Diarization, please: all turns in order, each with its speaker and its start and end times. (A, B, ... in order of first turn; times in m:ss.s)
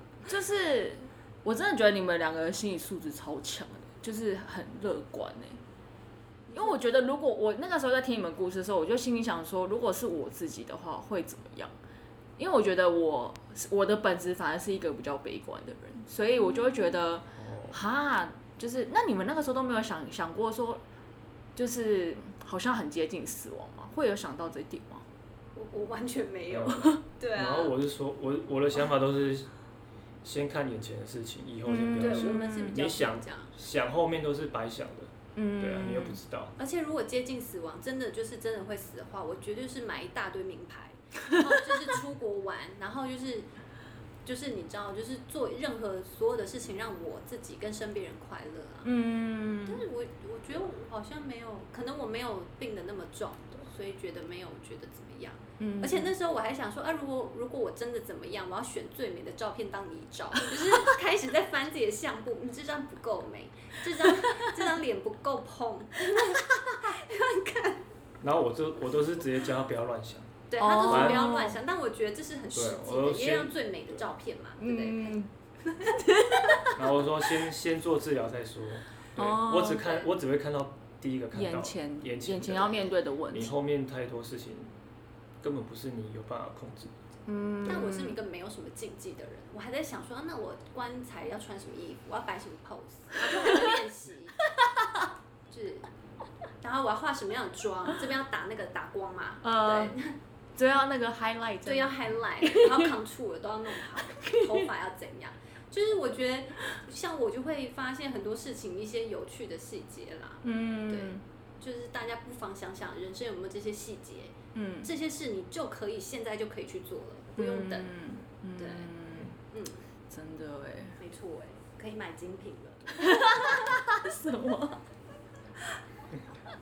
0:00.2-0:05.6 A
0:06.5-0:06.8 B
0:06.5-0:11.7 A
0:12.4-0:20.8 A
0:17.3-0:17.8 C
0:21.6-0:25.0 A
0:25.5-0:27.7 B
0:26.5-0:29.5 C
0:30.2-0:36.5 C
0:31.6-0:32.7 A
0:32.0-0:33.5 B
0:35.4-0:36.2 A
0:36.6-0:43.5 B
0:44.2-0:48.9 B
0:48.8-0:49.8 A
0:49.6-1:07.8 B
0:55.6-0:56.1 A
1:08.2-1:11.3 C
1:10.5-1:15.2 B
1:10.6-1:11.6 A
1:12.5-1:14.0 C
1:14.6-1:15.3 A
1:15.9-1:16.7 A
1:16.7-1:24.7 C
1:19.2-1:20.0 A
1:21.3-1:23.5 A
1:25.4-1:26.9 C
1:27.3-1:28.2 A
1:27.6-1:34.4 B
1:35.5-1:35.9 B
1:36.6-1:40.2 B
1:39.4-1:40.0 A
1:40.6-1:42.8 A
1:41.6-1:57.9 B
1:44.1-1:44.6 A
1:50.4-1:51.2 A
1:54.5-1:54.9 A
1:57.4-1:59.4 A
1:58.6-1:58.9 B
1:59.5-1:59.8 B
2:00.1-2:01.0 A
2:01.0-2:03.7 B
2:03.0-2:04.8 A